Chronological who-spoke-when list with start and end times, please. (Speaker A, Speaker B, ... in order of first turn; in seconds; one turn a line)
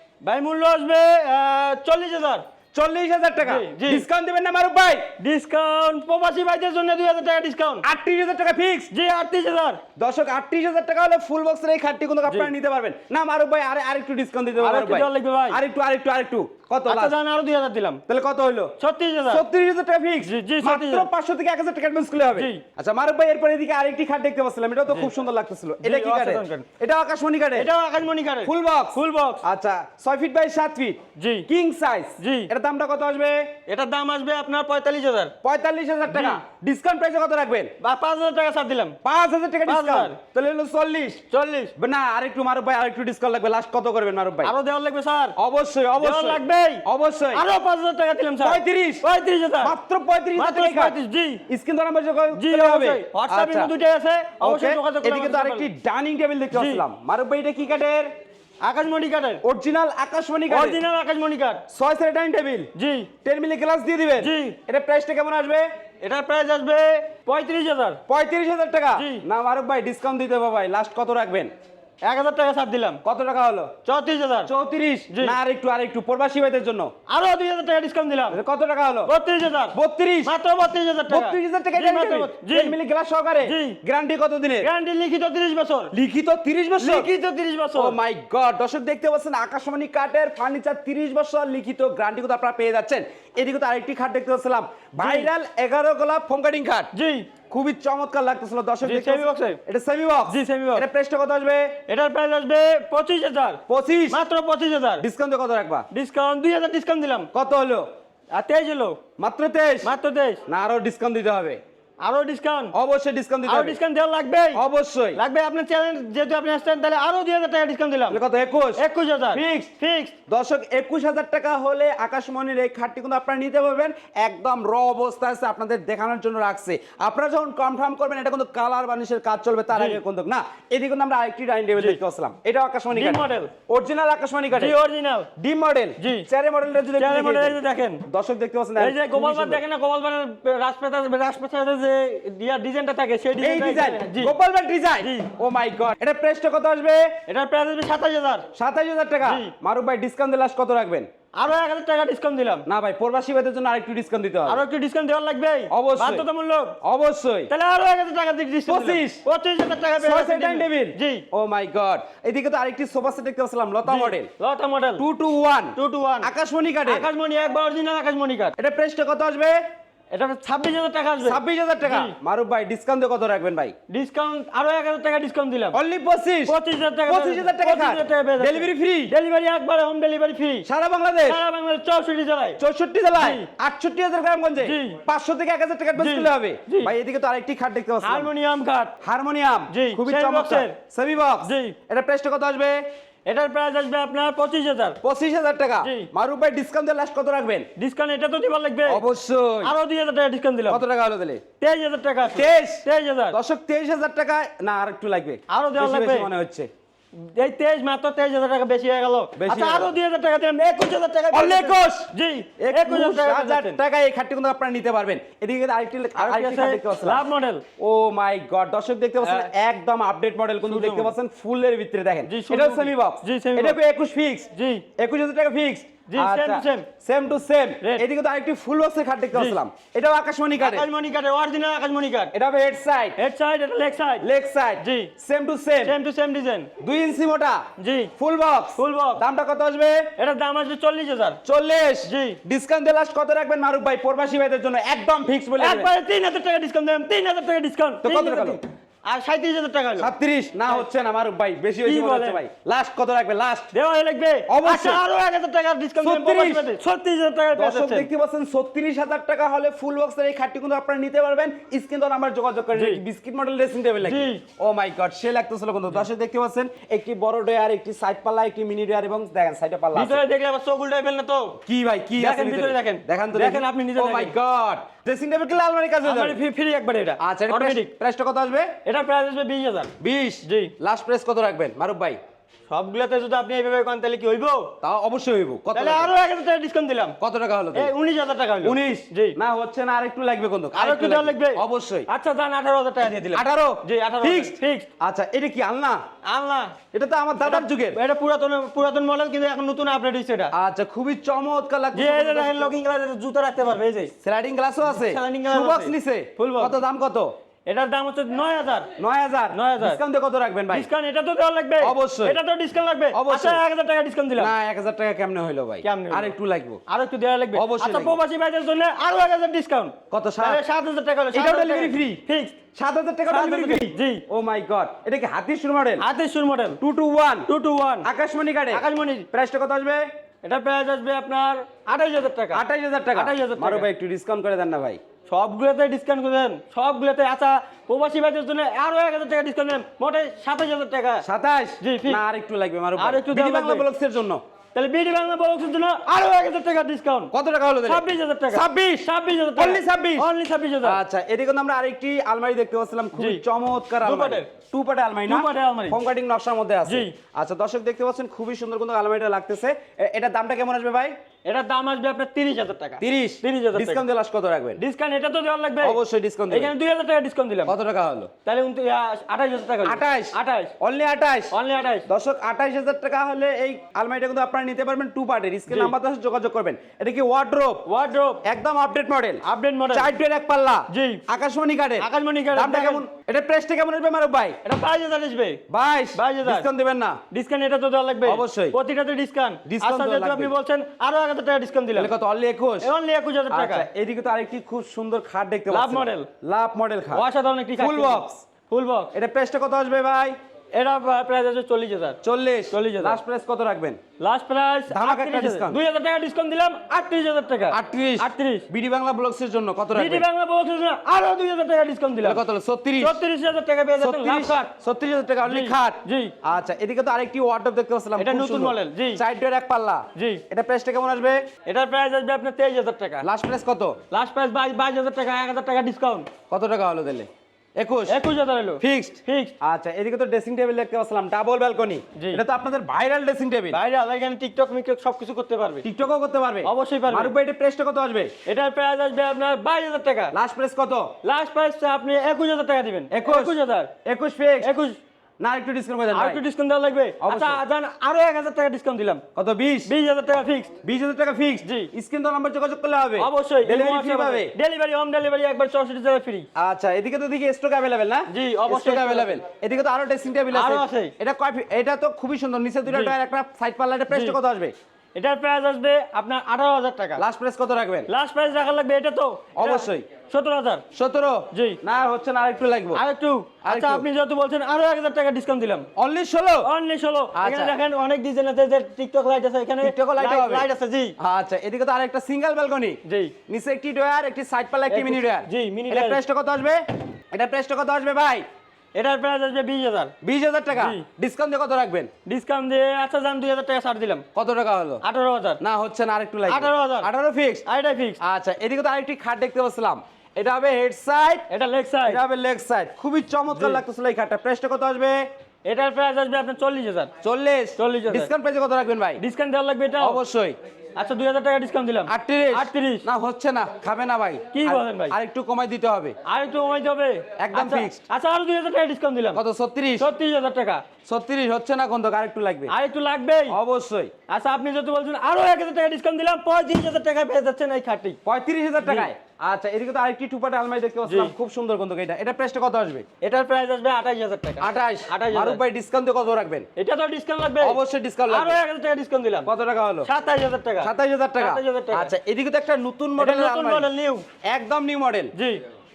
Speaker A: 0.2-2.4
Speaker B: 2.7-5.1
Speaker A: 3.4-4.0
Speaker A: 5.2-7.8
Speaker B: 7.8-8.9
Speaker A: 8.9-9.8
Speaker B: 10.0-17.1
Speaker A: 14.6-15.6
Speaker A: 16.9-18.0
Speaker B: 18.1-18.7
Speaker A: 18.8-19.4
Speaker B: 19.3-27.7
Speaker A: 20.2-21.1
Speaker A: 22.3-22.6
Speaker A: 25.8-26.7
Speaker A: 27.5-29.4
Speaker B: 28.4-33.5
Speaker A: 31.1-31.5
Speaker A: 32.2-32.5
Speaker A: 33.7-35.3
Speaker B: 35.4-37.7
Speaker A: 36.1-36.4
Speaker A: 37.8-39.0
Speaker B: 39.0-41.2
Speaker A: 39.6-40.2
Speaker A: 41.3-41.7
Speaker B: 41.8-44.5
Speaker A: 44.4-45.4
Speaker B: 45.4-47.4
Speaker A: 46.0-49.8
Speaker B: 48.4-49.0
Speaker B: 49.6-51.0
Speaker A: 50.4-51.4
Speaker B: 51.5-53.7
Speaker A: 52.3-55.7
Speaker B: 54.4-58.1
Speaker A: 56.5-56.8
Speaker A: 58.6-59.4
Speaker B: 59.4-60.8
Speaker A: 60.5-61.6
Speaker B: 61.7-62.7
Speaker A: 62.7-63.1
Speaker B: 63.2-65.7
Speaker A: 64.2-64.6
Speaker A: 66.0-68.0
Speaker B: 68.1-71.5
Speaker A: 68.9-69.2
Speaker A: 72.0-73.0
Speaker B: 73.0-73.7
Speaker A: 73.8-74.5
Speaker B: 74.5-76.9
Speaker A: 75.1-75.4
Speaker A: 77.1-78.4
Speaker B: 78.3-79.1
Speaker A: 79.0-82.8
Speaker B: 79.7-80.3
Speaker B: 81.1-84.7
Speaker A: 83.4-83.8
Speaker A: 84.6-85.9
Speaker B: 85.9-87.1
Speaker A: 86.8-88.0
Speaker B: 87.7-96.9
Speaker A: 95.0-95.3
Speaker A: 96.9-97.3
Speaker B: 97.5-101.8
Speaker A: 98.8-99.6
Speaker A: 100.3-100.8
Speaker A: 101.9-105.0
Speaker B: 103.7-104.2
Speaker B: 105.0-105.9
Speaker A: 105.9-107.3
Speaker B: 107.3-107.9
Speaker A: 108.3-109.0
Speaker B: 109.2-109.9
Speaker A: 109.8-110.4
Speaker B: 110.5-111.6
Speaker A: 112.0-112.7
Speaker B: 112.7-113.8
Speaker A: 113.4-114.6
Speaker B: 114.5-115.2
Speaker A: 115.1-118.2
Speaker B: 118.1-118.8
Speaker A: 118.8-120.2
Speaker B: 119.3-119.7
Speaker B: 120.3-134.7
Speaker A: 129.7-130.0
Speaker A: 132.9-133.5
Speaker A: 134.5-135.3
Speaker B: 135.3-139.6
Speaker A: 136.0-136.3
Speaker A: 136.9-138.0
Speaker A: 138.8-144.3
Speaker B: 143.4-147.2
Speaker A: 145.0-145.3
Speaker A: 147.3-148.5
Speaker B: 148.5-151.1
Speaker A: 149.2-149.5
Speaker A: 151.3-152.7
Speaker B: 152.7-154.6
Speaker A: 154.4-156.8
Speaker B: 155.7-156.2
Speaker B: 156.8-157.5
Speaker A: 157.5-161.2
Speaker B: 158.7-159.2
Speaker B: 160.0-164.3
Speaker A: 163.8-165.0
Speaker B: 165.0-167.1
Speaker A: 165.7-166.3
Speaker A: 166.8-168.5
Speaker B: 168.6-169.6
Speaker A: 170.1-172.2
Speaker B: 171.2-173.8
Speaker A: 173.9-175.8
Speaker B: 175.7-179.1
Speaker A: 176.5-180.7
Speaker B: 180.7-181.4
Speaker A: 181.2-182.6
Speaker B: 182.6-188.3
Speaker A: 183.1-183.5
Speaker A: 184.6-185.0
Speaker A: 186.0-186.9
Speaker A: 188.0-189.0
Speaker B: 189.0-192.8
Speaker A: 189.7-190.8
Speaker A: 191.4-191.8
Speaker A: 193.2-195.0
Speaker B: 195.0-197.7
Speaker A: 195.8-196.1
Speaker A: 197.8-199.0
Speaker B: 198.9-199.7
Speaker A: 199.6-200.8
Speaker B: 200.7-201.4
Speaker A: 201.6-203.4
Speaker B: 202.3-206.7
Speaker A: 205.5-206.3
Speaker A: 207.1-213.8
Speaker B: 209.4-209.9
Speaker B: 211.3-217.2
Speaker A: 216.1-217.6
Speaker B: 217.8-230.9
Speaker A: 219.2-219.5
Speaker A: 220.6-221.1
Speaker A: 222.2-223.8
Speaker A: 224.5-224.8
Speaker A: 226.1-226.9
Speaker A: 229.3-229.6
Speaker A: 230.6-232.3
Speaker B: 232.3-233.2
Speaker A: 233.2-234.3
Speaker B: 234.2-235.9
Speaker A: 234.8-235.1
Speaker A: 235.8-236.7
Speaker B: 236.8-237.6
Speaker A: 237.8-238.1
Speaker B: 238.2-240.1
Speaker A: 238.8-239.2
Speaker A: 240.2-241.4
Speaker B: 241.4-245.9
Speaker A: 242.0-242.4
Speaker A: 245.6-250.1
Speaker B: 248.0-248.6
Speaker B: 250.0-253.7
Speaker A: 251.8-252.4
Speaker A: 253.7-258.1
Speaker B: 254.5-255.0
Speaker B: 256.0-256.7
Speaker B: 257.6-270.2
Speaker A: 262.7-263.0
Speaker A: 264.0-264.4
Speaker A: 269.9-271.6
Speaker B: 271.6-276.4
Speaker A: 272.2-274.3
Speaker A: 276.0-277.9
Speaker B: 277.2-278.7
Speaker A: 278.8-279.9
Speaker B: 280.0-282.2
Speaker A: 280.4-280.7
Speaker A: 282.7-284.7
Speaker B: 284.8-286.1
Speaker A: 285.7-287.1
Speaker B: 287.2-287.9
Speaker A: 287.7-289.4
Speaker B: 288.6-292.1
Speaker A: 290.7-294.9
Speaker B: 293.3-296.0
Speaker A: 296.2-296.8
Speaker B: 296.9-298.0
Speaker A: 297.4-300.5
Speaker B: 300.5-302.7
Speaker A: 301.9-304.1
Speaker B: 304.2-307.3
Speaker A: 304.8-306.8
Speaker A: 307.6-308.9
Speaker B: 309.0-310.9
Speaker A: 309.5-310.0
Speaker A: 310.7-314.5
Speaker B: 311.8-312.4
Speaker B: 313.1-313.6
Speaker B: 314.4-316.8
Speaker A: 315.8-316.3
Speaker A: 316.9-322.6
Speaker B: 317.5-318.1
Speaker B: 320.1-320.6
Speaker B: 321.3-322.2
Speaker B: 322.7-326.0
Speaker A: 323.3-324.2
Speaker A: 326.0-326.8
Speaker B: 326.8-327.5
Speaker A: 327.5-328.1
Speaker B: 328.0-330.0
Speaker A: 328.7-329.3
Speaker A: 330.4-332.6
Speaker B: 332.5-335.0
Speaker A: 333.1-333.9
Speaker A: 335.3-341.2
Speaker B: 341.2-344.4
Speaker A: 341.8-342.2
Speaker A: 343.0-343.9
Speaker A: 344.7-347.3
Speaker B: 347.3-350.3
Speaker A: 347.8-351.0
Speaker B: 350.8-361.1
Speaker A: 353.1-353.4
Speaker A: 354.0-354.5
Speaker A: 355.2-356.0
Speaker A: 356.9-357.1
Speaker A: 361.4-364.0
Speaker B: 363.0-364.8
Speaker A: 364.8-367.7
Speaker B: 365.8-366.7
Speaker B: 367.6-368.3
Speaker A: 368.4-370.7
Speaker B: 369.8-371.5
Speaker A: 371.5-372.1
Speaker B: 372.1-377.8
Speaker A: 375.7-375.9
Speaker A: 377.9-378.4
Speaker B: 378.4-384.6
Speaker A: 379.4-380.1
Speaker A: 380.9-381.2
Speaker A: 382.0-383.0
Speaker A: 384.6-385.6
Speaker B: 385.7-387.2
Speaker A: 386.1-386.7
Speaker A: 387.3-392.1
Speaker B: 388.2-388.8
Speaker B: 389.6-390.5
Speaker B: 391.9-392.9
Speaker A: 392.8-393.9
Speaker B: 393.5-397.2
Speaker A: 395.7-396.3
Speaker A: 397.1-399.1
Speaker B: 397.8-398.4
Speaker B: 399.1-400.4
Speaker A: 400.7-402.2
Speaker B: 402.2-404.0
Speaker A: 402.7-403.2
Speaker A: 404.2-408.7
Speaker B: 404.9-405.8
Speaker B: 407.7-410.2
Speaker A: 409.9-412.4
Speaker B: 412.2-413.2
Speaker A: 413.0-414.7
Speaker B: 414.0-421.4
Speaker A: 415.4-416.4
Speaker A: 418.2-419.2
Speaker A: 420.1-420.4
Speaker A: 421.6-423.3
Speaker B: 423.2-424.0
Speaker A: 424.1-426.3
Speaker B: 426.5-428.2
Speaker A: 428.1-429.5
Speaker B: 428.8-433.8
Speaker A: 432.1-432.4
Speaker A: 433.7-435.9
Speaker B: 435.8-438.3
Speaker A: 436.6-437.3
Speaker A: 438.4-440.3
Speaker B: 440.3-441.1
Speaker A: 441.2-443.9
Speaker B: 443.1-444.7
Speaker A: 444.6-445.0
Speaker B: 445.4-446.4
Speaker A: 446.1-449.2
Speaker B: 447.2-447.6
Speaker B: 449.3-449.9
Speaker A: 449.9-450.7
Speaker B: 450.8-454.5
Speaker A: 451.6-451.9
Speaker A: 453.2-456.5
Speaker B: 456.6-464.7
Speaker A: 458.3-459.4
Speaker A: 460.5-461.1
Speaker A: 462.9-463.1
Speaker A: 464.1-464.4
Speaker A: 465.1-467.2
Speaker B: 467.2-468.1
Speaker A: 468.1-470.8
Speaker B: 469.5-470.1
Speaker B: 470.9-473.0
Speaker A: 471.5-471.8
Speaker A: 472.9-475.9
Speaker B: 473.6-474.0
Speaker B: 475.9-476.7
Speaker A: 476.6-481.1
Speaker B: 477.3-477.7
Speaker B: 479.8-480.7
Speaker B: 481.2-488.4
Speaker A: 483.0-483.3
Speaker A: 484.9-486.2
Speaker A: 488.9-490.1
Speaker B: 490.2-492.1
Speaker A: 490.7-491.0
Speaker A: 492.2-494.2
Speaker B: 494.3-495.0
Speaker A: 495.0-495.6
Speaker B: 495.6-497.6
Speaker A: 496.4-497.1
Speaker A: 497.6-498.2
Speaker B: 498.2-501.4
Speaker A: 501.5-502.2
Speaker B: 502.0-505.2
Speaker A: 503.5-503.8
Speaker A: 505.6-507.1
Speaker B: 507.2-509.2
Speaker A: 507.8-508.3
Speaker A: 509.2-510.2
Speaker B: 510.0-510.6
Speaker A: 510.9-513.1
Speaker B: 512.1-516.1
Speaker A: 514.5-515.1
Speaker A: 516.2-519.4
Speaker B: 517.4-518.0
Speaker B: 519.3-520.1
Speaker A: 520.0-520.8
Speaker B: 521.0-522.7
Speaker A: 522.7-523.6
Speaker B: 523.5-524.1
Speaker A: 524.3-528.2
Speaker B: 528.2-533.0
Speaker A: 528.8-529.1
Speaker A: 531.0-531.3
Speaker A: 533.2-535.6
Speaker B: 534.6-536.7
Speaker A: 536.8-539.5
Speaker B: 537.6-538.6
Speaker B: 539.5-540.1
Speaker A: 540.0-542.1
Speaker B: 540.8-543.9
Speaker A: 543.2-544.2
Speaker B: 544.5-545.3
Speaker A: 545.3-545.6